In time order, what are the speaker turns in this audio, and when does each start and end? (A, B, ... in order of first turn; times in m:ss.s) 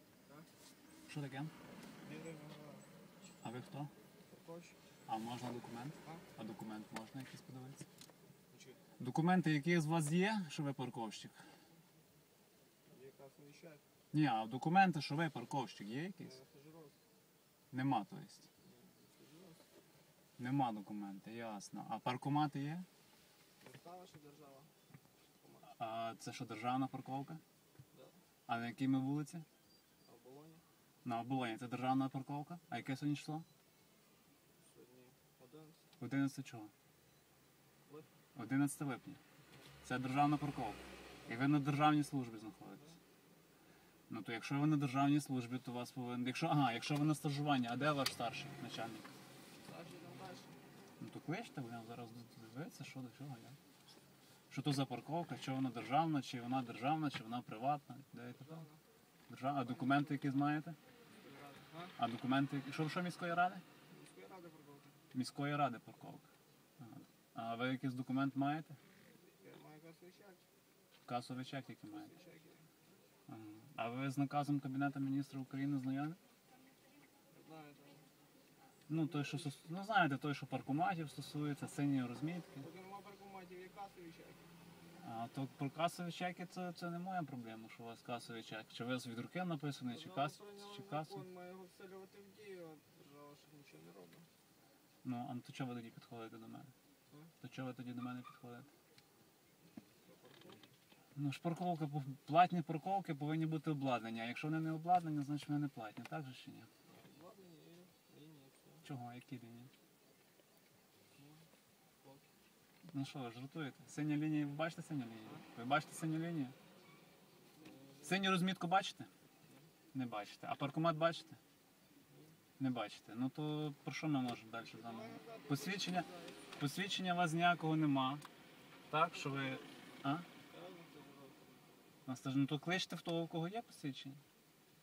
0:01.1-0:01.5 A
0:02.0-0:02.9 B
0:03.4-0:03.9 A
0:04.3-0:04.8 B
0:05.1-0:07.9 A
0:08.5-0:08.8 B
0:09.0-0:11.4 A
0:12.9-0:13.8 B
0:14.1-0:16.4 A
0:16.2-0:17.0 B
0:17.7-0:18.5 A
0:18.6-0:19.7 B
0:20.4-0:22.9 A
0:23.6-0:24.7 B
0:25.4-0:25.7 B
0:25.8-0:27.4 A
0:27.9-0:28.2 B
0:28.5-0:29.5 A
0:30.1-0:30.6 B
0:31.0-0:33.5 A
0:34.6-0:35.9 B
0:36.0-0:36.7 A
0:38.4-0:39.2 A
0:39.8-0:43.0 A
0:44.1-0:49.1 A
0:49.6-0:50.6 B
0:51.0-0:53.6 A
0:54.5-0:58.6 A
0:58.4-0:58.8 B
0:59.3-1:00.8 A
0:59.6-1:00.5 B
1:01.2-1:02.0 B
1:02.0-1:03.6 A
1:03.9-1:05.0 B
1:05.1-1:06.3 A
1:06.8-1:08.8 A
1:09.2-1:10.4 B
1:11.1-1:12.1 A
1:11.9-1:12.7 B
1:13.3-1:16.2 A
1:17.3-1:18.1 B
1:18.9-1:22.6 A
1:18.9-1:19.7 B
1:22.6-1:24.5 B
1:25.0-1:31.3 A
1:29.9-1:34.3 B
1:35.0-1:36.7 A
1:37.4-1:38.7 A
1:40.0-1:40.7 B
1:41.2-1:46.7 A
1:46.9-1:48.9 B
1:48.8-1:49.7 A
1:51.2-1:51.4 B
1:52.9-1:56.6 A
1:57.6-1:58.4 B
1:58.0-1:59.1 A
1:59.9-2:01.4 A
2:02.1-2:02.4 B
2:02.6-2:06.1 A
2:04.5-2:06.7 B
2:06.6-2:08.2 A
2:08.9-2:10.3 A
2:08.9-2:09.7 B
2:10.4-2:11.7 B
2:12.1-2:14.2 A